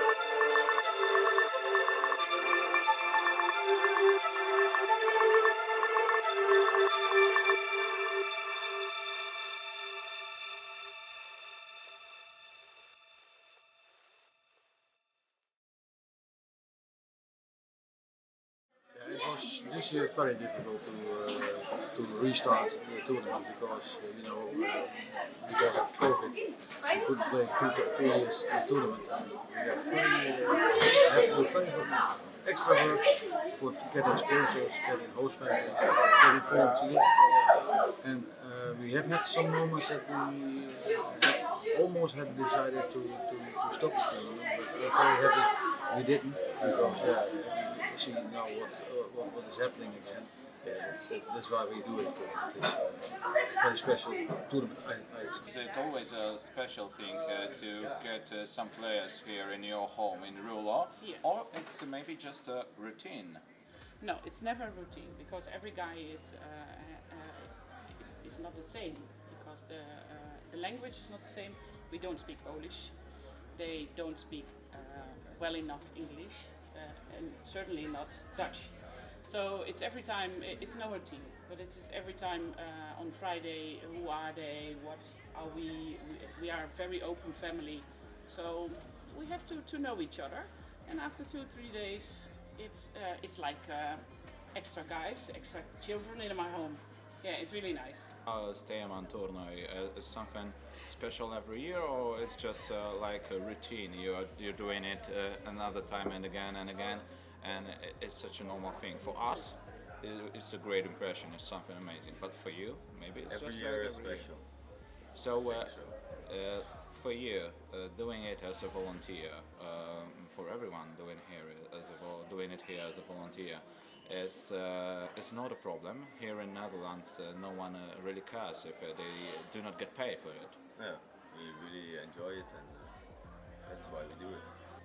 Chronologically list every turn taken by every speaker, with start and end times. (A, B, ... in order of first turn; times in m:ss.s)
0:19.0-0:26.4 A
0:27.0-0:33.0 A
0:33.6-0:37.1 A
0:38.0-0:53.0 A
0:53.6-0:55.4 A
0:55.4-1:03.4 B
1:01.0-1:01.2 C
1:04.0-1:38.2 C
1:38.3-1:54.4 B
1:53.3-1:54.5 D
1:55.1-2:10.6 B
1:55.2-1:56.0 D
2:10.8-2:13.0 D
2:13.6-2:14.6 D